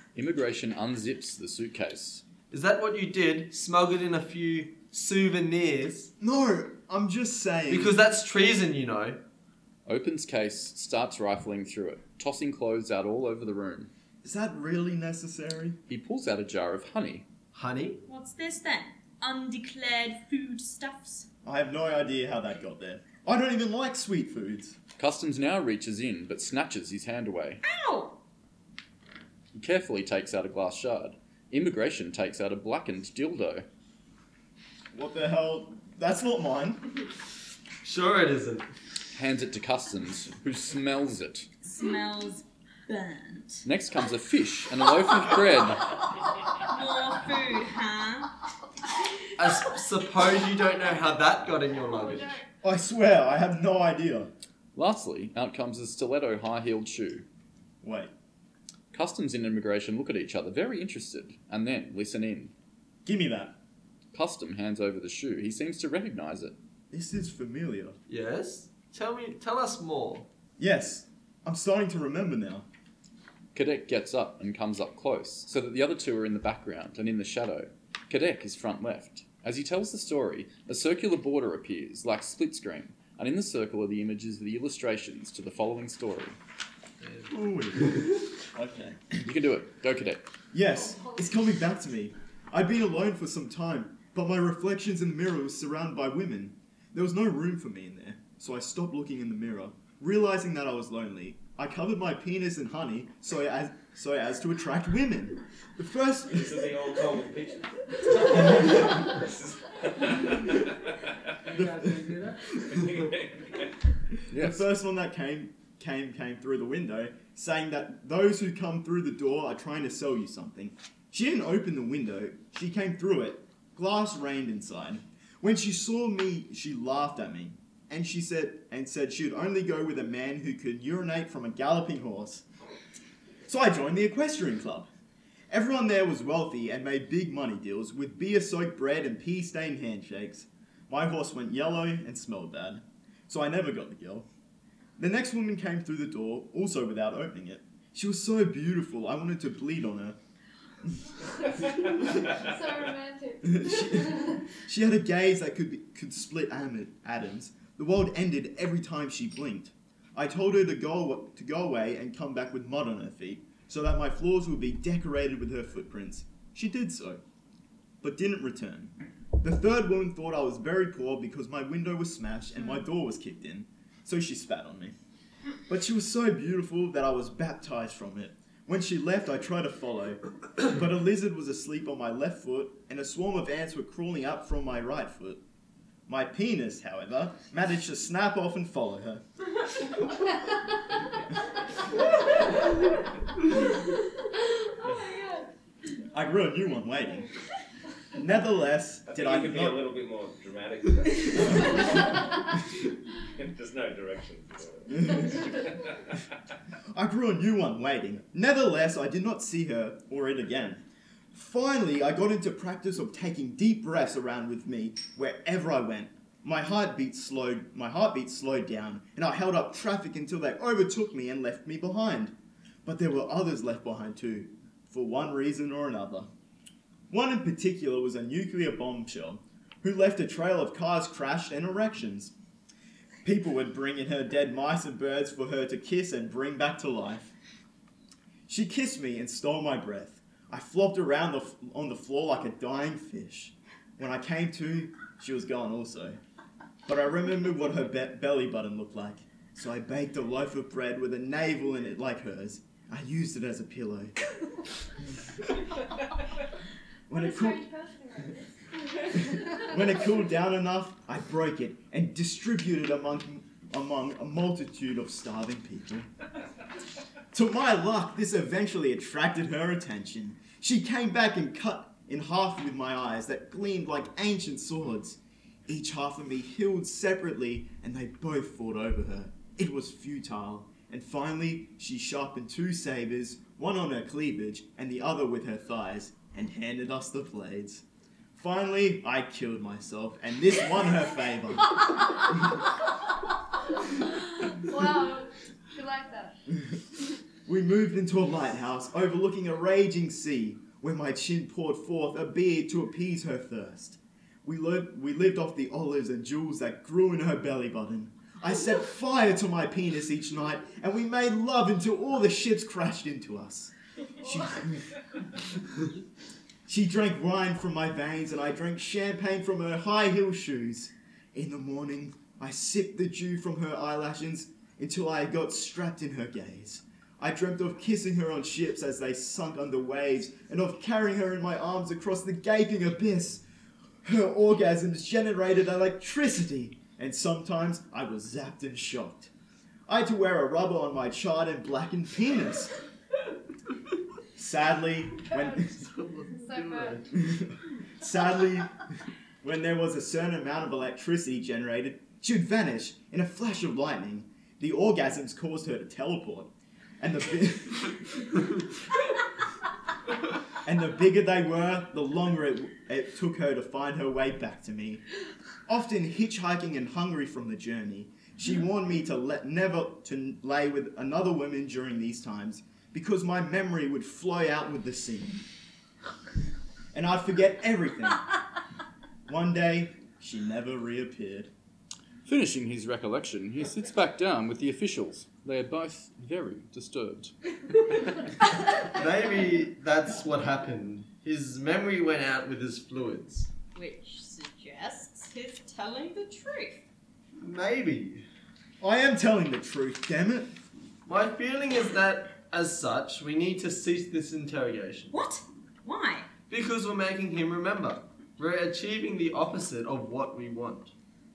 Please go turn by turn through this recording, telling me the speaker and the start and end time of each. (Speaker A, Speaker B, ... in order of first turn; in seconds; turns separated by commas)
Speaker A: 0.1-2.2, Speaker B: 2.5-6.1, Speaker C: 6.2-8.0, Speaker B: 7.7-9.2, Speaker A: 9.9-13.9, Speaker C: 14.2-15.8, Speaker A: 15.9-17.3, Speaker B: 17.5-18.0, Speaker D: 18.1-21.3, Speaker C: 21.4-24.8, Speaker A: 25.0-27.6, Speaker D: 27.6-28.2, Speaker A: 29.5-33.7, Speaker C: 34.9-36.9, Speaker B: 37.8-38.7, Speaker A: 39.1-41.5, Speaker D: 41.6-43.7, Speaker A: 43.6-46.0, Speaker D: 46.6-48.3, Speaker B: 49.4-52.4, Speaker E: 51.9-52.4, Speaker C: 52.6-54.3, Speaker A: 54.8-57.2, Speaker C: 57.8-58.1, Speaker A: 58.9-62.5, Speaker C: 63.0-63.6, Speaker A: 64.1-66.6, Speaker C: 66.9-68.0, Speaker B: 68.1-70.3, Speaker C: 70.6-72.7, Speaker A: 73.5-86.4, Speaker B: 87.0-87.3, Speaker C: 87.3-89.3, Speaker A: 89.2-90.2, Speaker C: 90.5-106.7, Speaker E: 90.8-91.3, Speaker F: 106.3-111.8, Speaker C: 111.5-112.5, Speaker F: 112.4-113.6, Speaker A: 114.3-114.7, Speaker C: 114.3-132.4, Speaker C: 133.5-134.9, Speaker C: 135.5-144.3, Speaker C: 145.0-150.2, Speaker C: 150.8-151.4, Speaker E: 152.3-154.2, Speaker C: 153.4-167.2, Speaker C: 168.0-174.9, Speaker C: 175.7-185.4, Speaker C: 186.1-189.2, Speaker C: 196.1-197.3, Speaker C: 198.2-199.9, Speaker F: 199.1-206.1, Speaker C: 204.9-205.7, Speaker C: 206.9-210.8, Speaker C: 211.3-222.3, Speaker C: 222.8-226.3, Speaker C: 227.1-232.3, Speaker C: 233.2-237.3, Speaker C: 238.5-246.2, Speaker C: 246.9-254.2, Speaker C: 257.1-257.7, Speaker E: 257.1-259.8, Speaker C: 259.2-266.1, Speaker C: 267.3-287.8, Speaker C: 288.4-292.5, Speaker E: 294.6-296.4, Speaker C: 297.5-314.9, Speaker C: 316.7-333.4, Speaker C: 334.0-339.3, Speaker C: 339.9-342.8, Speaker C: 344.4-345.7, Speaker B: 345.7-347.1, Speaker E: 346.3-347.1, Speaker C: 347.2-348.8, Speaker C: 349.4-358.6, Speaker C: 360.6-365.0, Speaker C: 365.7-375.4, Speaker C: 376.9-378.4, Speaker C: 379.3-381.5, Speaker A: 382.2-387.3, Speaker B: 388.9-393.5, Speaker D: 393.8-396.9, Speaker B: 397.4-398.3, Speaker C: 398.8-400.6, Speaker B: 401.1-405.1, Speaker D: 405.1-406.3, Speaker B: 406.5-410.9